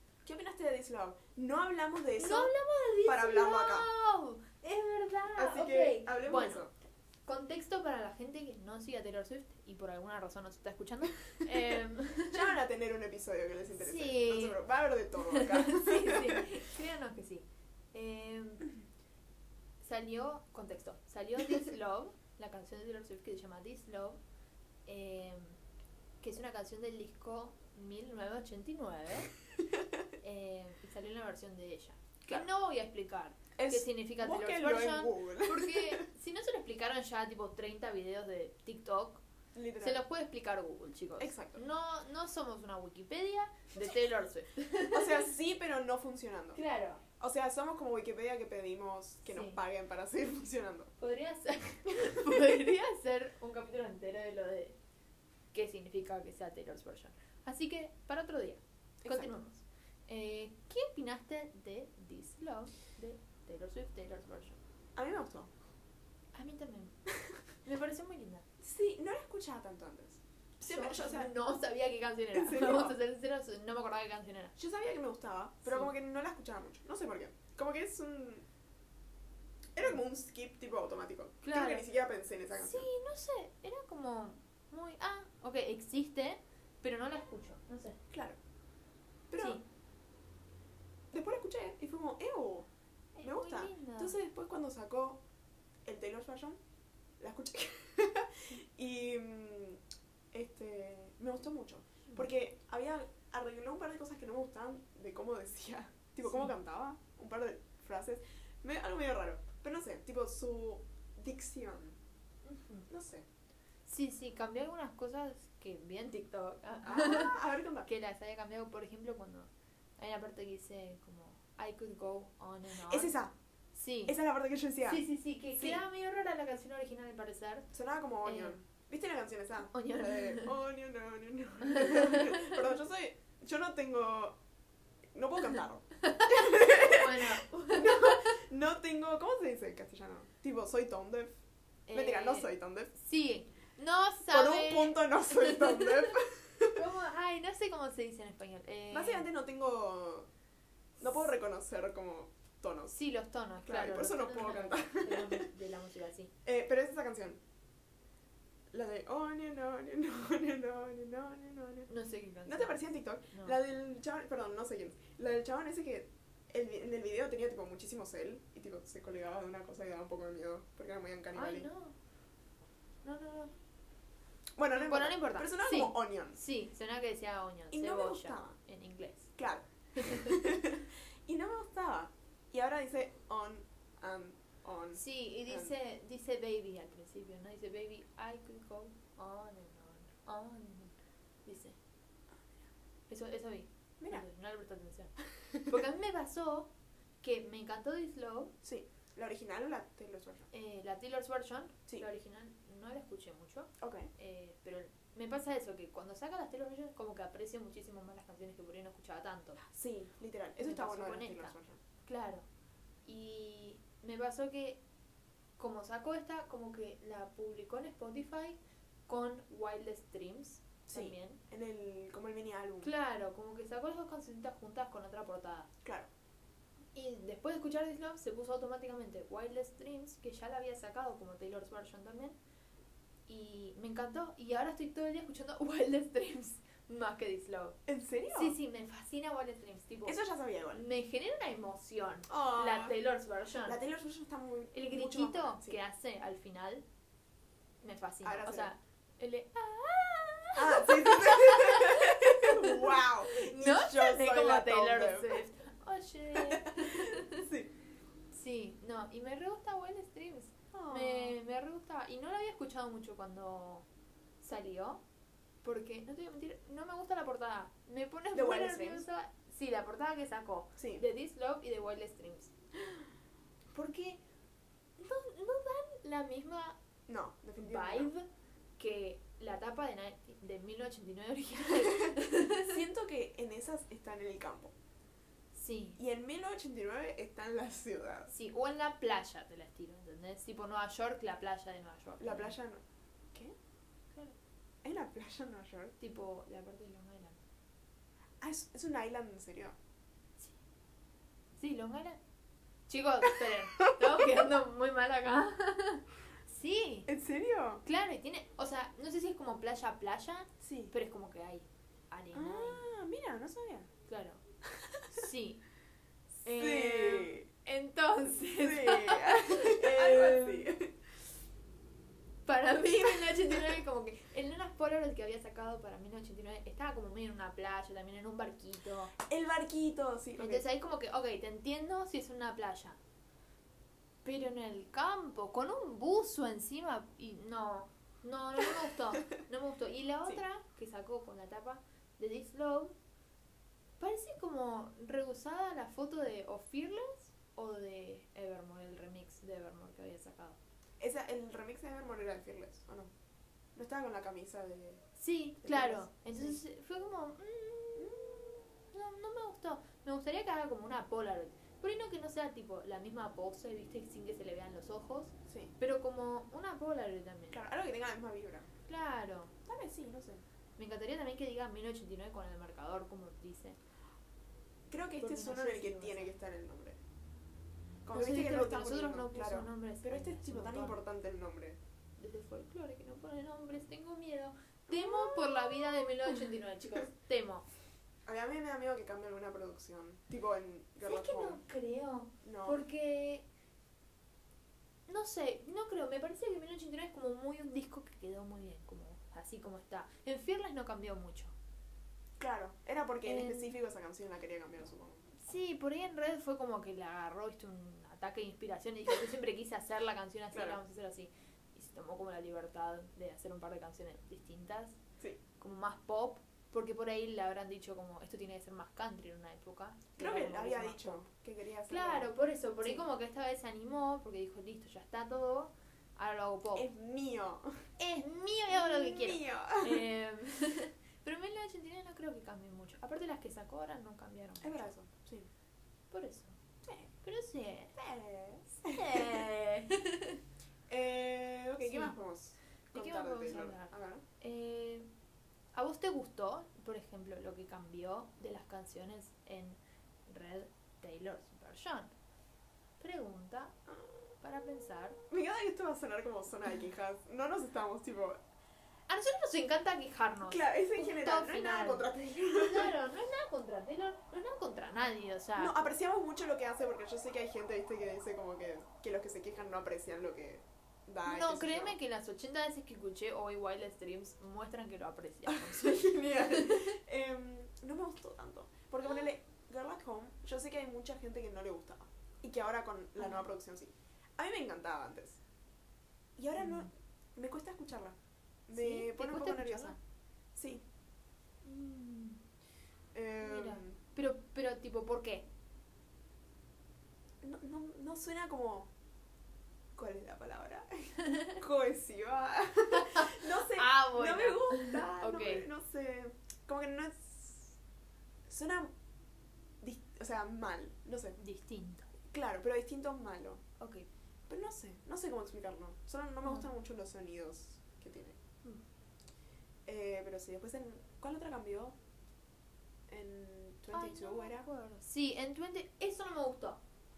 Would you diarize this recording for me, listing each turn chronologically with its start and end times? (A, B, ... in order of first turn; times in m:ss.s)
0:00.2-0:02.5 A
0:02.2-0:06.6 B
0:03.0-0:03.9 A
0:05.3-0:06.7 A
0:07.2-0:12.5 B
0:12.3-0:16.5 A
0:13.8-0:14.6 B
0:15.2-0:18.7 B
0:19.8-0:24.2 B
0:24.8-0:25.6 B
0:26.2-0:29.3 B
0:30.2-0:39.2 B
0:33.6-0:36.0 A
0:39.5-0:40.0 A
0:39.8-0:45.3 B
0:41.2-0:41.6 A
0:44.9-0:46.6 A
0:46.5-0:47.0 B
0:47.2-0:50.9 A
0:49.2-0:49.6 B
0:51.0-0:54.8 B
0:55.5-1:04.6 B
0:59.0-0:59.3 A
1:05.0-1:05.5 A
1:06.3-1:06.9 B
1:07.6-1:08.4 B
1:08.6-1:11.3 A
1:10.6-1:14.5 B
1:12.3-1:12.9 A
1:14.6-1:18.4 A
1:19.7-1:22.9 A
1:21.4-1:21.9 B
1:22.5-1:28.0 B
1:28.1-1:28.4 A
1:29.3-1:29.6 A
1:29.4-1:29.6 B
1:31.1-1:32.7 A
1:33.2-1:34.2 B
1:33.2-1:35.2 A
1:35.8-1:36.6 A
1:37.2-1:39.8 A
1:40.3-1:52.0 A
1:46.2-1:46.5 B
1:52.4-1:52.9 B
1:52.9-1:53.2 A
1:53.8-2:03.1 B
1:56.8-1:57.9 A
2:02.8-2:03.3 A
2:03.7-2:04.2 B
2:04.0-2:05.0 A
2:04.8-2:07.7 B
2:05.6-2:05.8 A
2:07.7-2:14.4 A
2:08.2-2:08.5 B
2:09.7-2:10.5 B
2:11.6-2:12.6 B
2:15.1-2:21.4 A
2:16.0-2:18.3 B
2:21.9-2:26.2 B
2:21.9-2:22.9 A
2:24.3-2:26.8 A
2:26.7-2:29.3 B
2:28.9-2:30.3 A
2:31.0-2:32.9 A
2:32.9-2:36.3 B
2:33.6-2:35.5 A
2:36.4-2:37.4 A
2:38.7-2:41.9 A
2:41.9-2:43.6 B
2:42.4-2:51.7 A
2:51.3-2:51.9 B
2:53.0-2:53.5 B
2:54.6-2:56.4 A
2:54.7-2:59.3 B
2:57.7-2:58.6 A
2:59.4-3:05.7 A
3:00.0-3:00.5 B
3:04.9-3:10.9 B
3:11.4-3:11.8 B
3:13.1-3:16.7 B
3:14.0-3:14.2 A
3:17.2-3:18.5 B
3:18.6-3:20.5 A
3:20.5-3:29.6 B
3:23.8-3:24.1 A
3:29.6-3:31.8 A
3:30.6-3:32.4 B
3:33.0-3:34.8 B
3:35.6-3:38.6 B
3:39.1-3:41.4 B
3:40.9-3:42.9 A
3:42.8-3:45.7 B
3:45.8-3:46.1 A
3:46.9-3:52.4 B
3:53.3-3:57.8 B
3:57.9-3:58.6 A
3:58.3-4:00.2 B
4:00.0-4:00.8 A
4:00.7-4:03.8 B
4:02.3-4:03.0 A
4:03.6-4:05.8 A
4:04.7-4:06.8 B
4:07.8-4:17.5 B
4:08.2-4:08.7 A
4:10.5-4:15.4 A
4:16.3-4:17.7 A
4:18.3-4:23.8 B
4:20.7-4:21.4 A
4:24.4-4:25.0 B
4:25.6-4:32.5 B
4:28.3-4:29.0 A
4:30.8-4:31.0 A
4:33.7-4:34.2 B
4:35.0-4:36.8 B
4:37.1-4:38.1 A
4:37.6-4:38.2 B
4:38.8-4:42.8 B
4:42.6-4:44.7 A
4:45.5-4:46.0 B
4:46.0-4:48.3 A
4:48.3-4:52.5 B
4:52.2-4:53.5 A
4:54.8-4:56.0 A
4:56.0-4:57.4 B
4:58.4-4:59.7 A
5:01.6-5:02.2 B
5:02.9-5:07.1 B
5:03.9-5:04.3 A
5:07.1-5:07.8 A
5:07.8-5:12.8 B
5:10.6-5:10.9 A
5:12.3-5:13.9 A
5:14.1-5:14.4 B
5:15.1-5:15.6 B
5:16.4-5:17.5 A
5:16.4-5:20.7 B
5:18.6-5:20.9 A
5:22.4-5:29.1 B
5:23.0-5:23.8 A
5:29.2-5:30.6 A
5:30.4-5:33.0 B
5:34.2-5:42.9 B
5:44.0-5:50.6 B
5:51.0-5:53.1 A
5:53.8-5:55.0 A
5:55.2-6:07.6 B
5:55.6-5:56.6 A
6:05.5-6:05.7 A
6:07.5-6:08.6 A
6:08.9-6:09.5 B
6:09.6-6:10.4 A
6:10.8-6:13.8 B
6:14.9-6:17.0 A
6:15.2-6:16.3 B
6:18.0-6:21.8 A
6:18.1-6:21.0 B
6:22.2-6:27.7 B
6:24.9-6:26.3 A
6:28.2-6:31.6 A
6:31.0-6:33.4 B
6:32.4-6:32.8 A
6:35.1-6:41.5 B
6:42.4-6:45.2 A
6:43.2-6:43.7 B
6:45.4-6:55.0 B
6:50.5-6:50.8 A
6:55.6-7:01.2 B
7:00.2-7:02.3 A
7:01.9-7:06.9 B
7:06.7-7:07.8 A
7:08.0-7:14.8 B
7:08.7-7:10.0 A
7:14.6-7:15.5 A
7:16.1-7:16.6 B
7:16.8-7:17.1 A
7:17.2-7:17.9 B
7:18.0-7:19.4 A
7:18.8-7:20.4 B
7:20.9-7:24.2 A
7:21.8-7:22.1 B
7:22.9-7:25.1 B
7:25.7-7:32.1 B
7:33.0-7:33.8 B
7:34.4-7:35.2 B
7:35.3-7:38.4 A
7:39.1-7:45.8 B
7:40.4-7:42.9 A
7:45.6-7:51.9 A
7:51.2-7:56.9 B
7:55.5-8:05.4 A
8:03.2-8:03.4 B
8:06.4-8:08.2 A
8:06.6-8:06.9 B
8:08.7-8:10.0 A
8:08.7-8:10.0 B
8:10.5-8:10.8 A
8:11.6-8:12.4 B
8:13.1-8:14.0 A
8:13.4-8:15.4 B
8:17.4-8:18.9 A
8:20.0-8:27.8 A
8:22.9-8:25.6 B
8:28.5-8:28.9 A
8:29.8-8:31.4 A
8:31.4-8:32.1 B
8:32.3-8:33.6 A
8:33.8-8:34.0 B
8:34.5-8:38.4 A
8:39.8-8:42.0 A
8:43.1-8:44.7 A
8:43.9-8:46.8 B